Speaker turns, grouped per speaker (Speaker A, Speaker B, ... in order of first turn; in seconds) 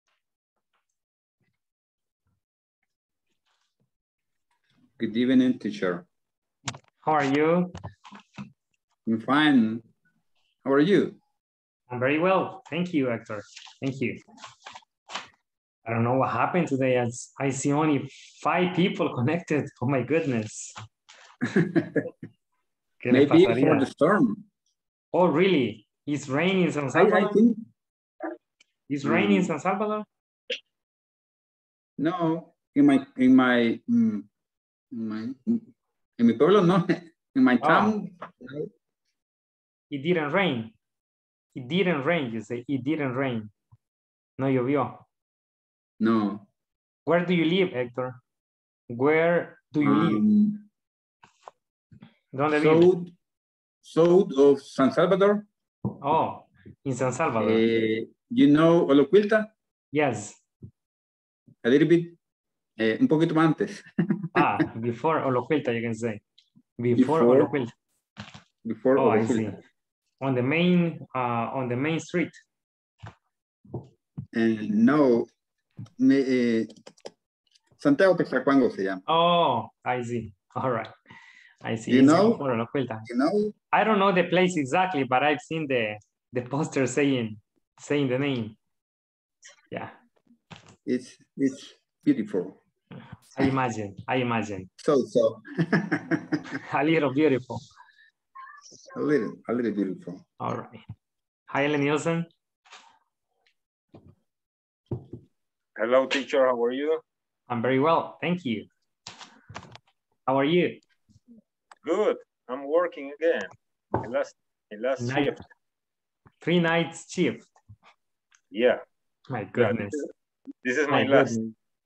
Speaker A: 5.0-6.0, 9.1-9.8, 10.7-11.2, 21.5-22.1, 23.1-24.4, 26.9-27.7, 29.0-29.5, 32.0-34.3, 34.9-35.7, 36.2-38.7, 46.0-46.5, 49.8-50.6, 52.5-53.1, 53.8-55.5, 57.4-59.5, 61.6-62.2, 62.8-64.6, 67.0-67.5, 68.7-69.5, 74.3-75.3, 76.0-76.7, 77.8-79.0, 81.9-82.4, 83.1-83.5, 90.9-92.6, 94.8-96.6, 98.9-100.2
Speaker B: 7.0-7.7, 11.9-14.2, 15.9-20.7, 23.0-23.9, 25.1-27.4, 28.9-30.1, 37.6-38.0, 39.9-40.8, 41.5-43.5, 44.4-45.0, 47.1-48.2, 48.9-50.2, 52.3-52.9, 56.0-57.7, 59.9-60.4, 64.3-66.2, 66.8-67.7, 69.0-69.6, 70.2-72.4, 79.1-80.9, 81.6-83.1, 83.7-88.6, 93.3-94.7, 96.6-97.6, 100.4-100.8, 101.5-102.3, 107.5-108.7, 110.3-110.8, 115.0-115.4, 116.4-117.5, 119.3-120.0, 120.9-121.4
Speaker C: 105.8-107.0, 111.8-115.4, 118.5-118.8, 119.6-120.0, 120.6-121.5